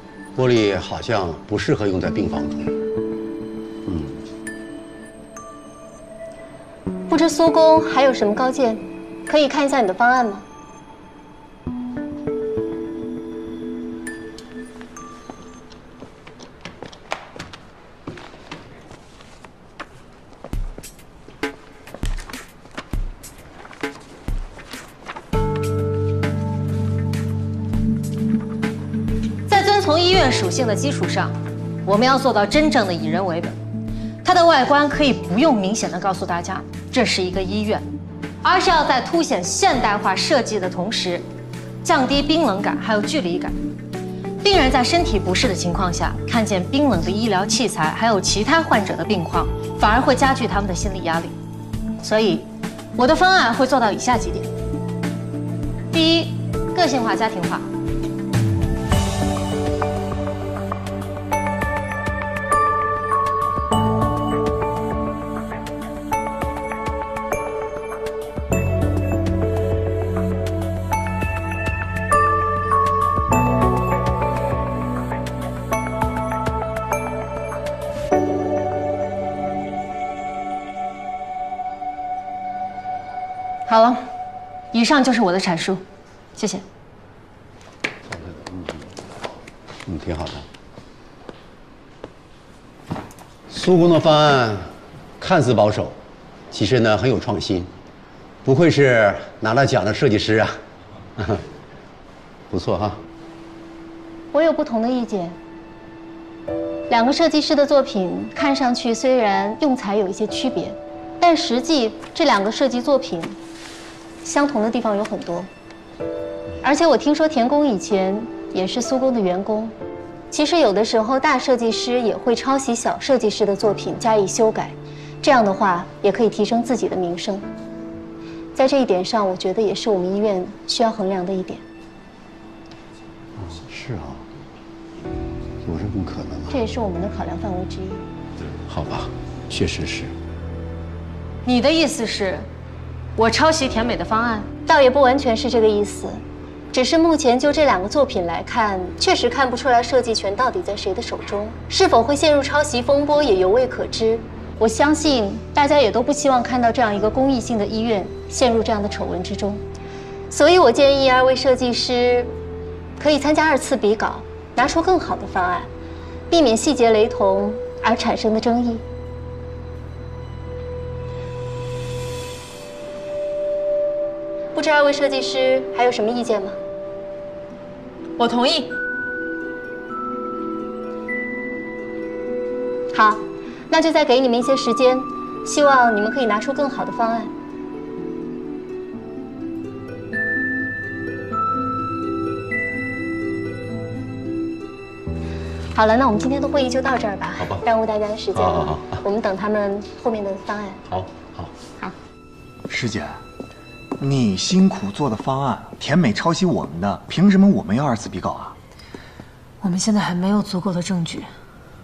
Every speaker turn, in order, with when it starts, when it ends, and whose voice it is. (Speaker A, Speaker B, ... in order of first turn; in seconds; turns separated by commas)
Speaker A: 0.4-2.7, Speaker A: 3.9-4.1, Speaker B: 7.1-10.4, Speaker C: 29.5-33.6, Speaker C: 34.2-37.9, Speaker C: 38.4-41.2, Speaker C: 41.8-43.5, Speaker C: 44.4-51.3, Speaker C: 52.0-54.5, Speaker C: 55.9-57.7, Speaker C: 83.7-84.0, Speaker C: 84.7-85.8, Speaker C: 86.4-86.7, Speaker A: 88.1-88.7, Speaker A: 89.9-90.4, Speaker A: 93.5-94.6, Speaker A: 95.2-96.0, Speaker A: 96.5-97.7, Speaker A: 98.5-100.5, Speaker A: 102.5-103.0, Speaker B: 104.3-105.4, Speaker B: 106.9-113.4, Speaker B: 114.2-115.5, Speaker B: 116.6-119.7, Speaker B: 120.3-127.5, Speaker B: 128.6-131.6, Speaker A: 133.6-134.2, Speaker A: 135.6-136.6, Speaker B: 136.5-138.1, Speaker A: 138.7-140.1, Speaker C: 141.4-142.5, Speaker C: 143.2-144.5, Speaker B: 144.7-146.2, Speaker B: 146.7-159.6, Speaker B: 160.3-162.3, Speaker B: 163.0-165.7, Speaker B: 166.3-168.8, Speaker B: 174.6-176.6, Speaker B: 182.9-187.3, Speaker B: 195.7-200.8, Speaker A: 198.4-198.8, Speaker A: 200.9-201.5, Speaker D: 202.7-203.2, Speaker D: 204.0-208.6, Speaker C: 209.6-211.3